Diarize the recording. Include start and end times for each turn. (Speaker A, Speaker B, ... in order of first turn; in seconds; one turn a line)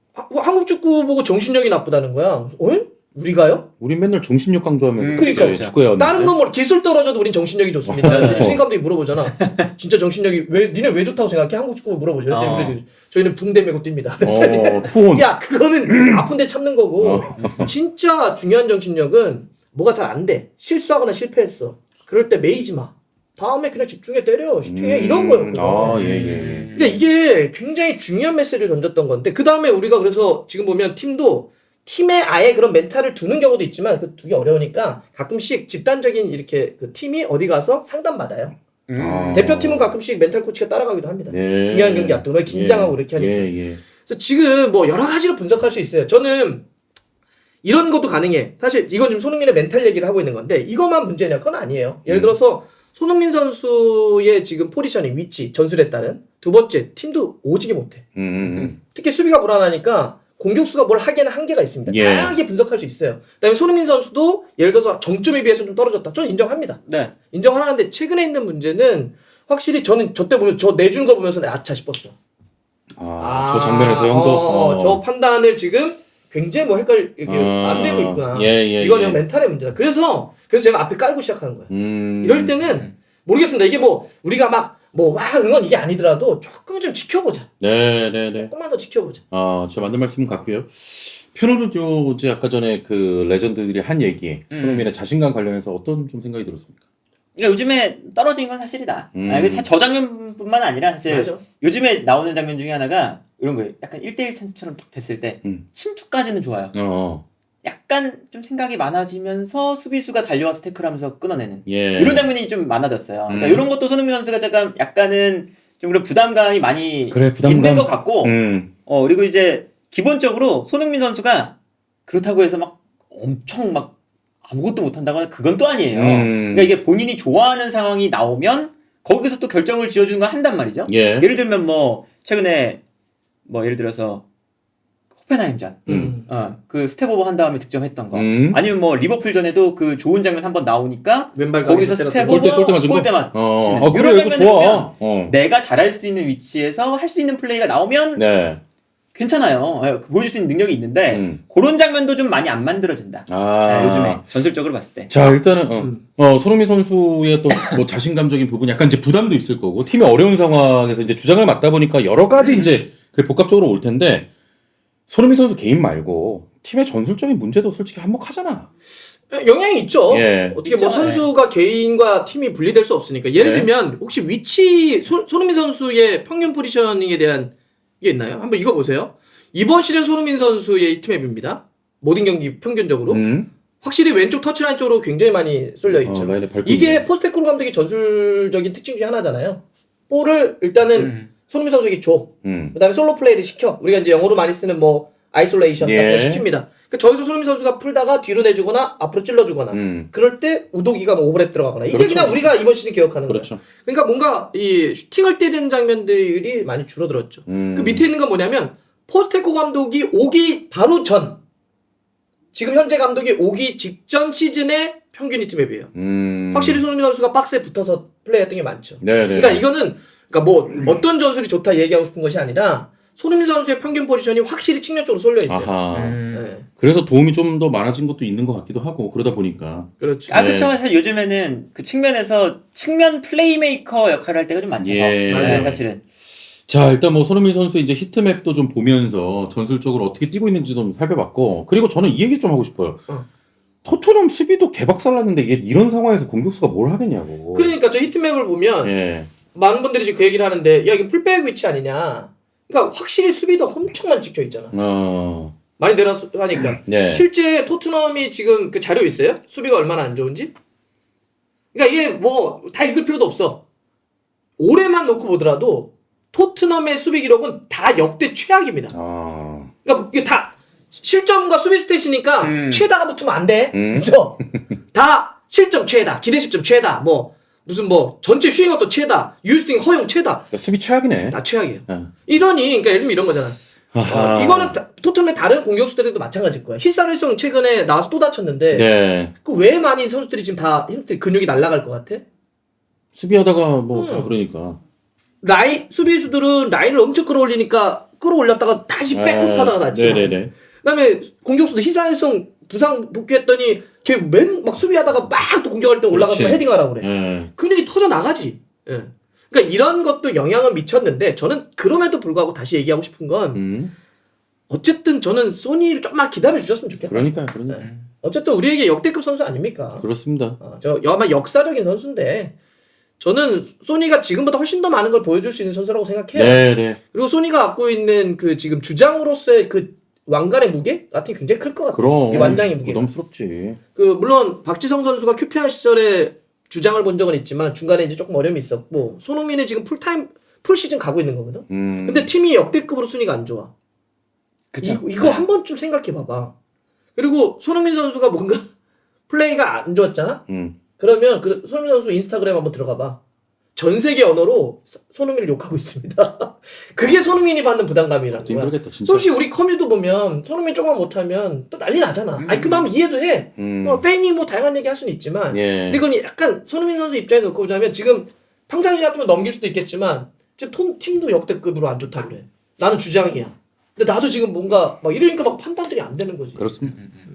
Speaker A: 0.1-3.7
Speaker B: 3.8-6.3
Speaker C: 5.0-5.8
Speaker A: 5.2-26.0
Speaker B: 7.9-8.6
Speaker C: 8.1-8.6
Speaker C: 9.3-9.6
Speaker C: 12.3-12.8
Speaker B: 14.2-15.3
Speaker B: 15.9-16.2
Speaker B: 17.0-17.7
Speaker C: 17.4-17.7
Speaker B: 24.6-26.7
Speaker C: 25.9-27.0
Speaker A: 26.7-38.5
Speaker C: 38.9-39.4
Speaker B: 39.0-39.9
Speaker A: 39.3-46.6
Speaker B: 41.3-43.8
Speaker A: 47.6-58.0
Speaker B: 52.1-52.4
Speaker B: 58.1-58.8
Speaker A: 58.9-72.2
Speaker B: 61.9-62.4
Speaker C: 66.9-67.1
Speaker B: 73.0-75.0
Speaker A: 73.2-87.5
Speaker B: 77.3-79.2
Speaker B: 81.7-82.6
Speaker B: 87.6-88.5
Speaker A: 88.4-89.2
Speaker B: 89.3-96.7
Speaker C: 94.5-94.9
Speaker C: 97.4-106.8
Speaker B: 99.1-99.7
Speaker A: 101.1-101.4
Speaker B: 106.7-107.2
Speaker C: 107.6-118.3
Speaker B: 111.7-112.3
Speaker B: 113.3-113.7
Speaker B: 117.1-118.7
Speaker C: 118.9-121.5
Speaker C: 122.1-123.9
Speaker C: 124.5-132.8
Speaker B: 125.9-126.7
Speaker B: 130.9-131.3
Speaker C: 133.4-134.2
Speaker C: 135.2-148.2
Speaker A: 135.9-136.3
Speaker B: 135.9-136.2
Speaker B: 138.1-138.6
Speaker A: 141.3-142.5
Speaker B: 142.2-145.3
Speaker B: 148.2-148.6
Speaker C: 149.2-155.1
Speaker B: 151.1-151.4
Speaker B: 153.3-154.2
Speaker B: 155.1-164.3
Speaker B: 165.1-168.7
Speaker A: 169.3-183.2
Speaker B: 170.1-170.6
Speaker C: 170.7-171.3
Speaker B: 173.4-173.7
Speaker B: 183.1-183.5
Speaker A: 183.8-211.4
Speaker B: 185.9-187.1
Speaker C: 190.9-191.3
Speaker B: 192.4-192.8
Speaker B: 195.8-196.5
Speaker B: 199.7-200.1
Speaker B: 201.9-202.5
Speaker B: 203.3-203.6
Speaker B: 207.5-208.0
Speaker A: 212.5-215.9
Speaker B: 215.9-216.8
Speaker A: 216.5-225.7
Speaker B: 219.0-219.6
Speaker B: 225.4-226.2
Speaker C: 225.9-226.4
Speaker A: 226.3-226.7
Speaker B: 226.8-230.7
Speaker A: 230.0-230.4
Speaker C: 230.3-236.0
Speaker B: 234.8-235.8
Speaker A: 235.3-235.8
Speaker B: 236.7-243.1
Speaker B: 243.8-247.8
Speaker A: 247.5-248.9
Speaker B: 248.8-249.3
Speaker A: 249.5-254.7
Speaker B: 254.7-255.6
Speaker A: 255.8-260.5
Speaker B: 256.6-257.2
Speaker A: 261.7-263.6
Speaker A: 264.6-268.9
Speaker B: 268.9-269.7
Speaker A: 269.9-274.4
Speaker C: 272.4-272.9
Speaker B: 273.7-274.6
Speaker A: 274.9-280.5
Speaker B: 280.5-282.1
Speaker A: 281.3-292.2
Speaker B: 283.9-284.8
Speaker B: 288.7-289.3
Speaker B: 293.1-294.8
Speaker A: 293.9-294.3
Speaker A: 295.4-313.6
Speaker B: 299.1-300.5
Speaker B: 306.1-307.5
Speaker B: 313.5-313.9
Speaker A: 314.7-320.1
Speaker B: 317.1-317.9
Speaker B: 320.0-320.6
Speaker A: 320.6-322.5
Speaker A: 323.2-333.1
Speaker B: 326.3-327.0
Speaker B: 331.9-333.8
Speaker C: 332.4-332.6
Speaker A: 333.9-343.7
Speaker B: 341.7-342.3
Speaker C: 344.7-345.5
Speaker A: 344.8-346.5
Speaker A: 347.2-348.6
Speaker A: 349.3-350.4
Speaker B: 350.5-350.8
Speaker A: 351.0-353.2
Speaker A: 353.8-376.6
Speaker B: 357.0-357.3
Speaker B: 358.3-359.3
Speaker C: 362.4-362.9
Speaker B: 363.6-364.0
Speaker B: 365.5-366.0
Speaker B: 376.6-377.0